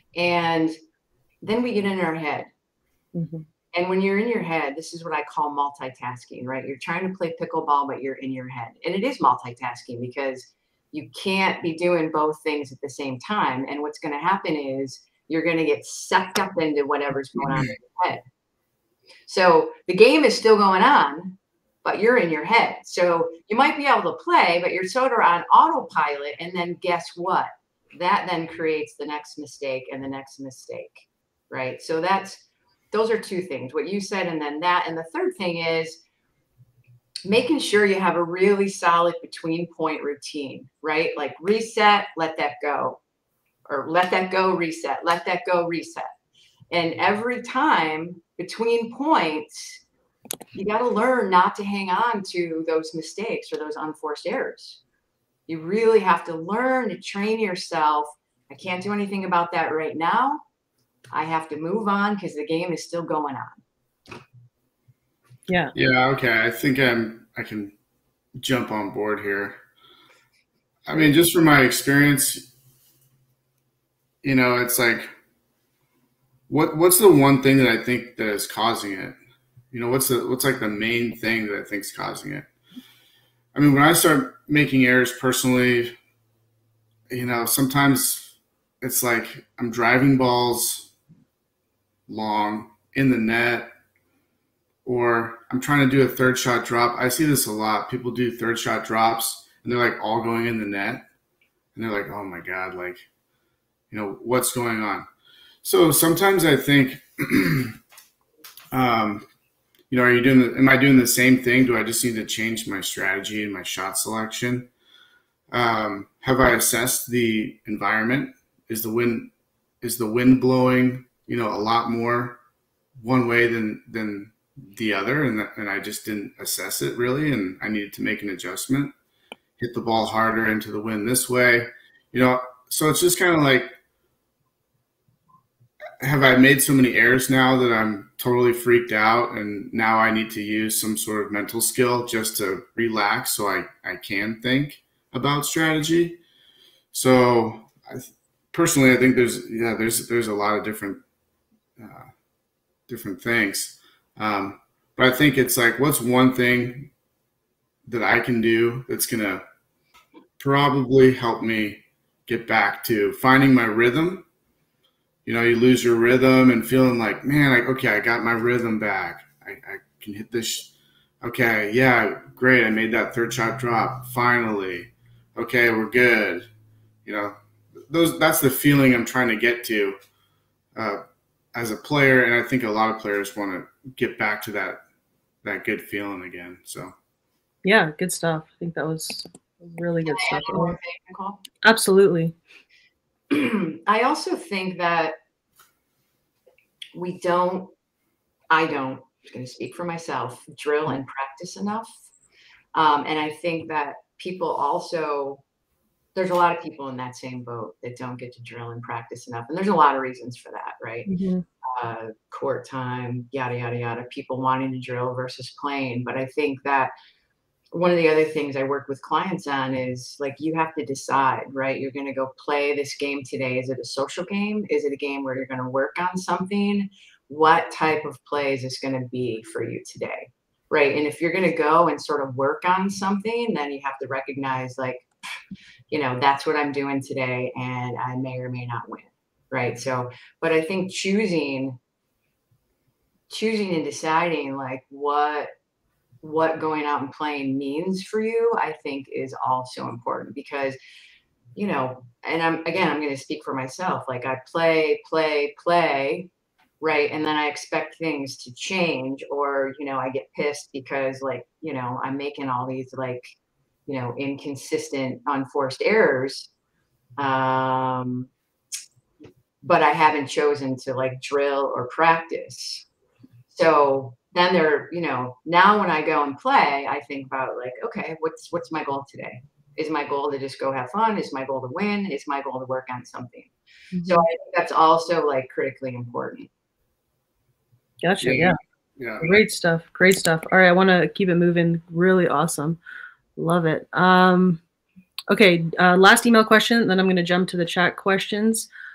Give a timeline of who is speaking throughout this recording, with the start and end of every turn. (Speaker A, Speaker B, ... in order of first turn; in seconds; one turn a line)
Speaker A: 0.1-0.8
Speaker A: 1.4-2.5
Speaker B: 3.1-3.5
Speaker A: 3.7-18.2
Speaker A: 19.3-36.0
Speaker A: 37.2-43.0
Speaker A: 43.7-46.1
Speaker A: 46.7-49.8
Speaker A: 50.5-54.8
Speaker A: 55.5-60.4
Speaker A: 61.1-63.6
Speaker B: 65.5-65.7
Speaker C: 65.7-67.8
Speaker C: 68.4-69.6
Speaker C: 70.9-72.5
Speaker C: 74.2-75.1
Speaker C: 76.5-79.2
Speaker C: 79.7-82.5
Speaker C: 83.5-85.9
Speaker C: 87.1-90.9
Speaker C: 92.1-93.7
Speaker C: 94.8-101.1
Speaker C: 101.8-103.0
Speaker C: 103.9-105.1
Speaker C: 105.6-107.8
Speaker C: 108.7-109.2
Speaker C: 109.9-114.7
Speaker C: 115.5-119.3
Speaker C: 119.8-122.4
Speaker C: 123.0-128.9
Speaker C: 129.6-133.8
Speaker C: 136.0-146.2
Speaker C: 146.9-151.0
Speaker C: 151.8-152.1
Speaker C: 152.9-156.9
Speaker C: 157.9-159.4
Speaker C: 160.4-164.2
Speaker C: 165.2-170.7
Speaker C: 171.2-176.5
Speaker C: 177.1-177.3
Speaker C: 177.9-180.0
Speaker C: 180.8-181.0
Speaker C: 181.6-184.8
Speaker C: 185.4-186.9
Speaker B: 187.6-190.8
Speaker A: 190.1-191.4
Speaker B: 191.6-192.3
Speaker A: 193.3-195.2
Speaker A: 196.9-197.7
Speaker A: 198.5-201.9
Speaker A: 202.7-205.4
Speaker A: 206.2-211.1
Speaker B: 211.1-211.4
Speaker A: 211.6-216.9
Speaker A: 217.7-235.1
Speaker A: 235.9-241.8
Speaker A: 243.3-245.5
Speaker A: 246.2-250.8
Speaker A: 251.6-256.3
Speaker A: 256.8-263.2
Speaker A: 263.9-266.5
Speaker A: 267.2-268.3
Speaker A: 269.6-272.9
Speaker A: 273.5-283.5
Speaker B: 283.9-284.3
Speaker A: 284.1-286.5
Speaker B: 288.0-288.6
Speaker C: 288.2-289.3
Speaker B: 289.2-292.8
Speaker B: 293.4-294.6
Speaker B: 295.3-298.7